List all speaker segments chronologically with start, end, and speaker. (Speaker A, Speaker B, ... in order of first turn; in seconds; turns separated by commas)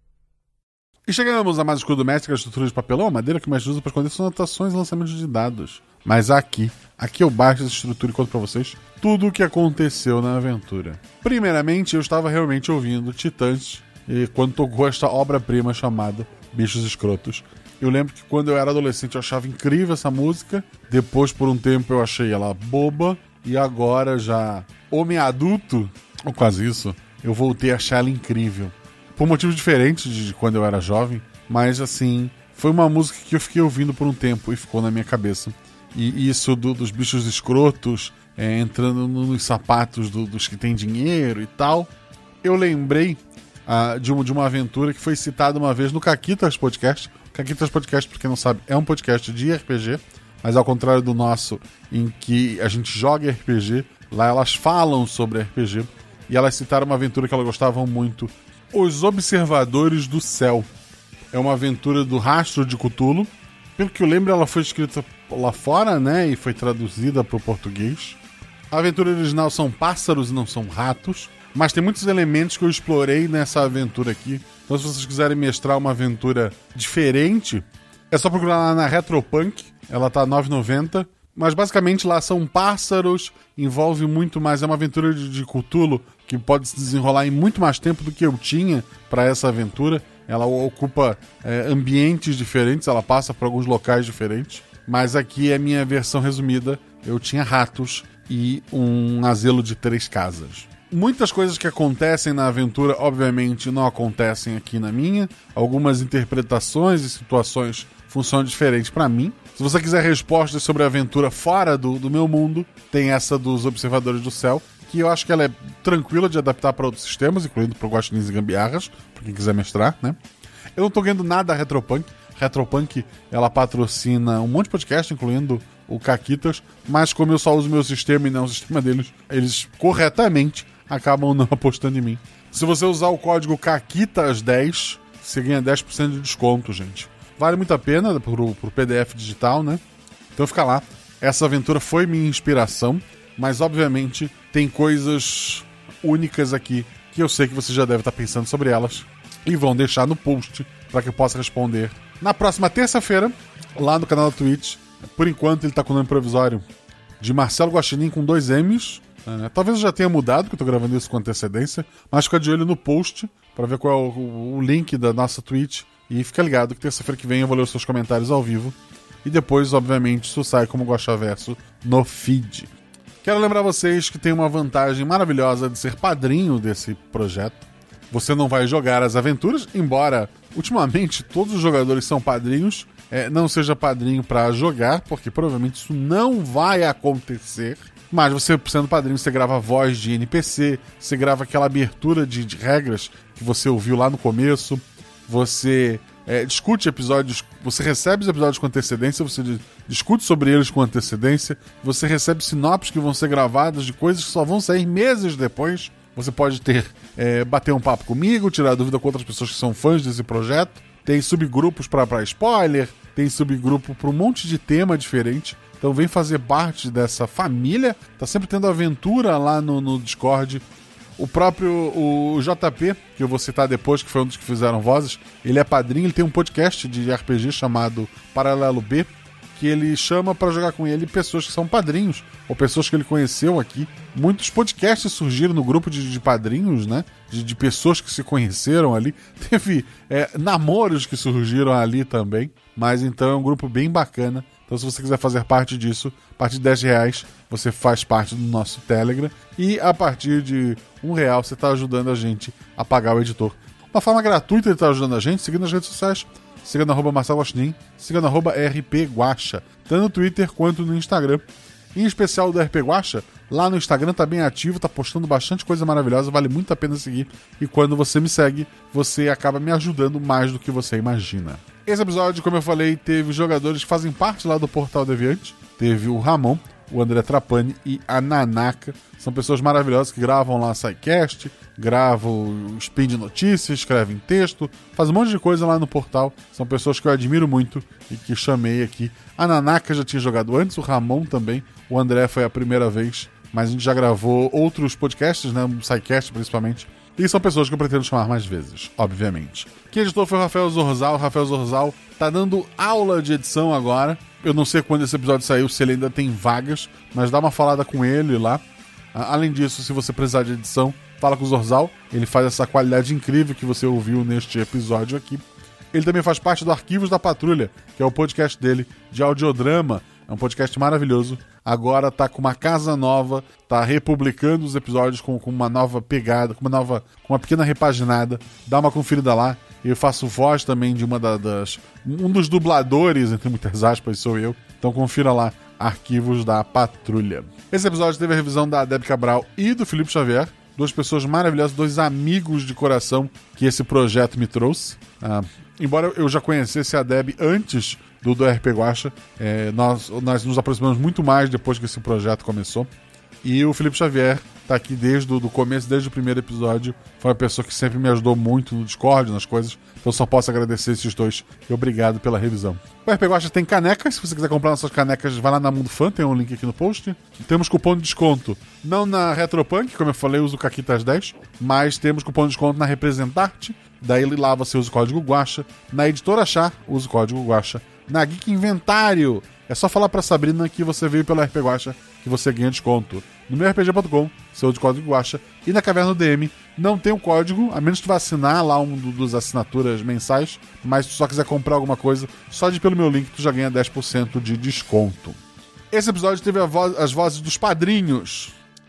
Speaker A: 1.1-41.9, Speaker A: 42.4-60.7, Speaker A: 61.3-68.2, Speaker A: 68.7-120.2, Speaker A: 120.7-139.8, Speaker A: 140.3-156.6, Speaker A: 157.2-220.6, Speaker A: 221.2-308.6, Speaker A: 309.1-352.9, Speaker A: 353.4-395.4, Speaker A: 395.9-398.5